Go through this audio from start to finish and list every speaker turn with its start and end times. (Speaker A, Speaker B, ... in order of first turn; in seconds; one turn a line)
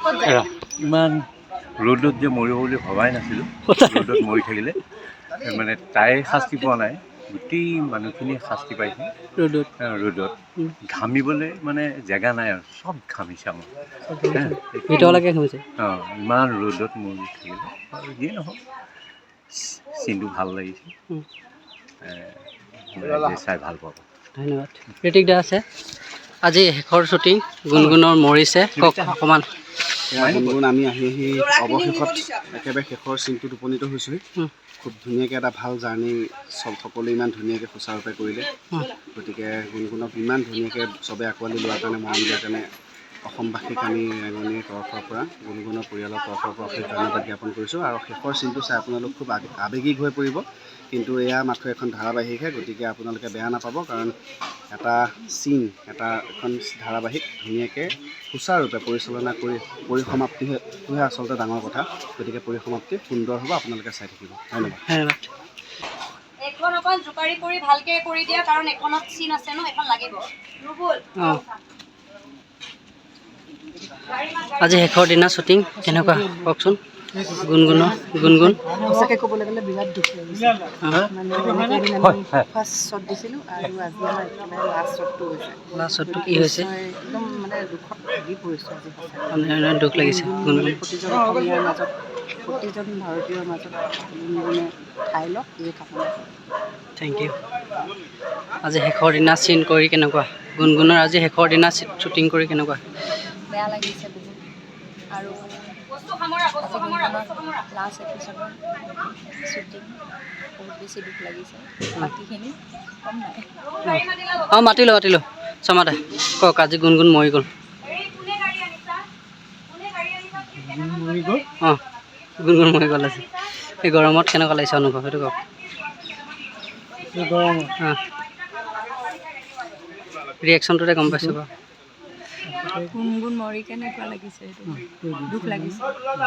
Speaker A: 0.2-1.2
Speaker A: 1.8-4.8
Speaker B: 3.7-4.4
Speaker A: 5.4-9.1
Speaker B: 9.4-9.7
Speaker A: 9.8-10.3
Speaker A: 10.9-13.7
Speaker B: 14.1-15.6
Speaker A: 14.2-15.2
Speaker A: 15.8-18.6
Speaker A: 19.5-20.9
Speaker A: 22.0-22.4
Speaker A: 22.9-24.0
Speaker B: 24.4-25.6
Speaker B: 26.4-29.4
Speaker A: 28.8-29.1
Speaker C: 30.1-34.2
Speaker A: 30.2-30.6
Speaker D: 31.4-32.4
Speaker C: 34.8-38.5
Speaker C: 39.1-42.7
Speaker C: 43.2-54.1
Speaker C: 54.7-64.8
Speaker B: 64.8-65.2
Speaker D: 66.4-71.5
Speaker D: 74.1-74.9
Speaker B: 74.6-76.8
Speaker E: 75.8-76.5
Speaker B: 77.3-78.6
Speaker E: 77.5-96.3
Speaker A: 82.0-82.4
Speaker B: 85.7-86.7
Speaker B: 89.3-90.7
Speaker B: 97.0-97.3
Speaker B: 98.6-102.8
Speaker F: 103.5-104.4
Speaker F: 105.1-105.7
Speaker D: 105.9-107.7
Speaker F: 106.6-108.6
Speaker F: 109.5-109.9
Speaker F: 110.6-113.4
Speaker D: 113.7-114.5
Speaker B: 113.9-117.5
Speaker D: 117.8-119.0
Speaker D: 119.7-121.5
Speaker B: 122.4-123.2
Speaker B: 123.8-125.3
Speaker D: 126.9-129.8
Speaker B: 130.4-131.4
Speaker F: 132.9-135.8